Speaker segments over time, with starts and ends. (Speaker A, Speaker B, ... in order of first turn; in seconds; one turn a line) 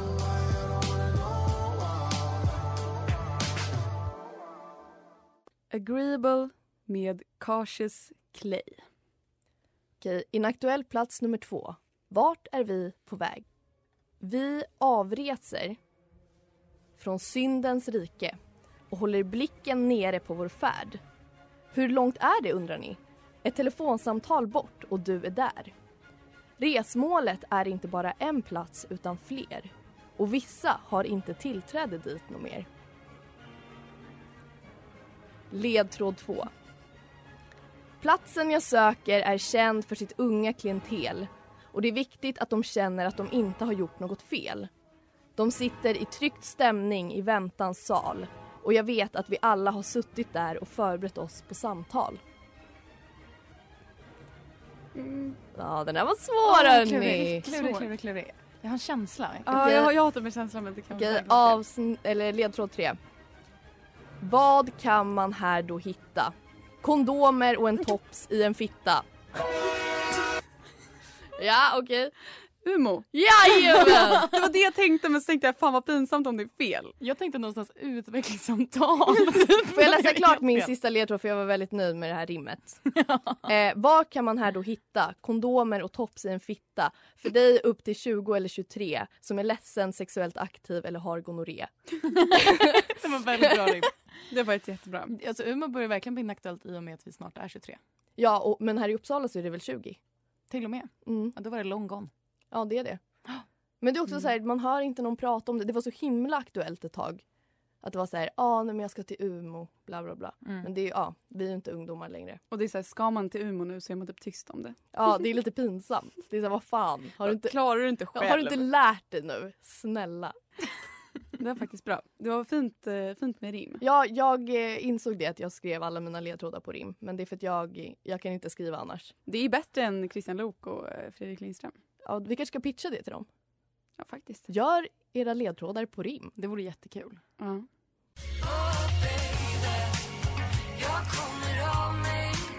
Speaker A: 5.7-8.8
Speaker B: 10.0-13.4
Speaker B: 14.2-15.8
Speaker B: 17.0-18.4
Speaker B: 18.9-21.0
Speaker B: 21.7-25.7
Speaker B: 26.6-32.7
Speaker B: 35.5-36.5
Speaker B: 38.0-44.7
Speaker B: 45.4-52.2
Speaker A: 55.0-55.4
Speaker B: 55.5-57.5
Speaker C: 56.4-59.6
Speaker A: 57.4-57.9
Speaker A: 59.5-61.6
Speaker B: 59.5-59.9
Speaker B: 60.9-63.0
Speaker B: 64.2-69.1
Speaker B: 71.4-72.1
Speaker A: 72.6-73.1
Speaker B: 73.1-74.4
Speaker A: 73.7-77.0
Speaker C: 77.0-80.7
Speaker B: 79.7-82.8
Speaker C: 82.9-83.5
Speaker B: 83.5-93.8
Speaker C: 92.8-93.9
Speaker A: 94.3-95.1
Speaker C: 95.1-97.8
Speaker B: 98.2-100.0
Speaker C: 100.5-102.1
Speaker B: 101.1-101.3
Speaker B: 102.5-103.0
Speaker B: 103.8-107.2
Speaker B: 107.8-112.4
Speaker A: 112.5-114.8
Speaker B: 114.9-117.6
Speaker A: 117.2-118.7
Speaker B: 118.1-120.4
Speaker A: 121.4-123.8
Speaker B: 123.8-129.1
Speaker A: 129.3-131.8
Speaker B: 132.0-133.3
Speaker A: 134.0-134.5
Speaker B: 134.5-136.3
Speaker C: 136.4-137.2
Speaker A: 137.4-137.7